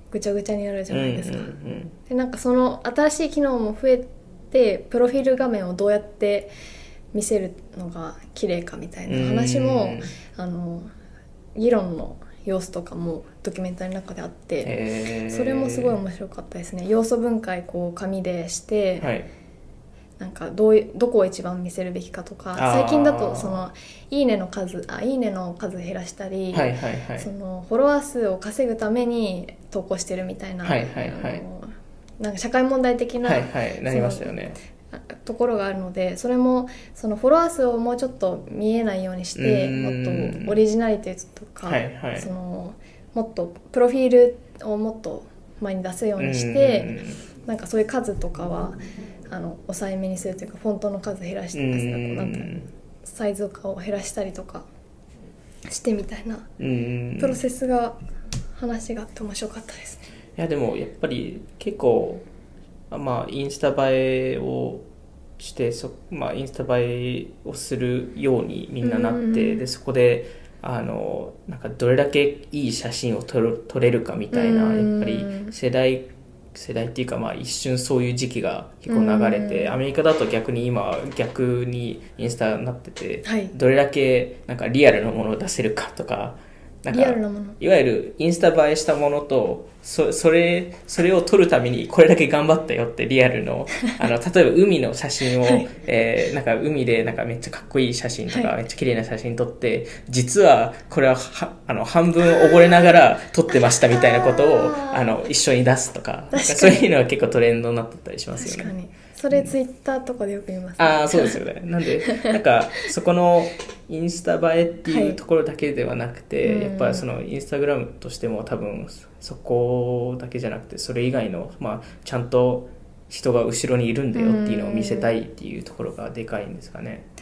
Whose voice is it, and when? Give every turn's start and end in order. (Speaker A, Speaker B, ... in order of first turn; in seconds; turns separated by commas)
Speaker A: 0.1-6.5, Speaker B: 0.9-1.9, Speaker A: 7.1-10.9, Speaker B: 9.1-10.1, Speaker A: 11.6-14.7, Speaker B: 14.6-16.0, Speaker A: 15.3-19.1, Speaker B: 19.0-19.3, Speaker A: 20.2-34.4, Speaker B: 22.6-23.7, Speaker B: 26.5-27.3, Speaker B: 30.6-31.4, Speaker B: 33.2-34.6, Speaker A: 34.9-48.8, Speaker B: 39.4-40.6, Speaker B: 41.6-42.3, Speaker B: 46.2-47.2, Speaker A: 49.3-54.7, Speaker B: 51.5-52.7, Speaker A: 55.7-56.5, Speaker B: 56.6-57.4, Speaker A: 57.2-58.0, Speaker A: 58.6-60.0, Speaker B: 60.4-62.2, Speaker B: 62.9-64.8, Speaker B: 65.4-108.8, Speaker A: 68.8-69.6, Speaker A: 74.3-75.5, Speaker A: 78.9-79.8, Speaker A: 83.2-83.5, Speaker A: 86.9-87.6, Speaker A: 95.4-95.7, Speaker A: 102.2-103.0, Speaker A: 103.5-105.2, Speaker A: 106.3-106.9, Speaker A: 108.4-111.4, Speaker B: 110.8-127.1, Speaker A: 112.0-112.8, Speaker A: 114.9-115.2, Speaker A: 116.4-117.1, Speaker A: 124.1-125.1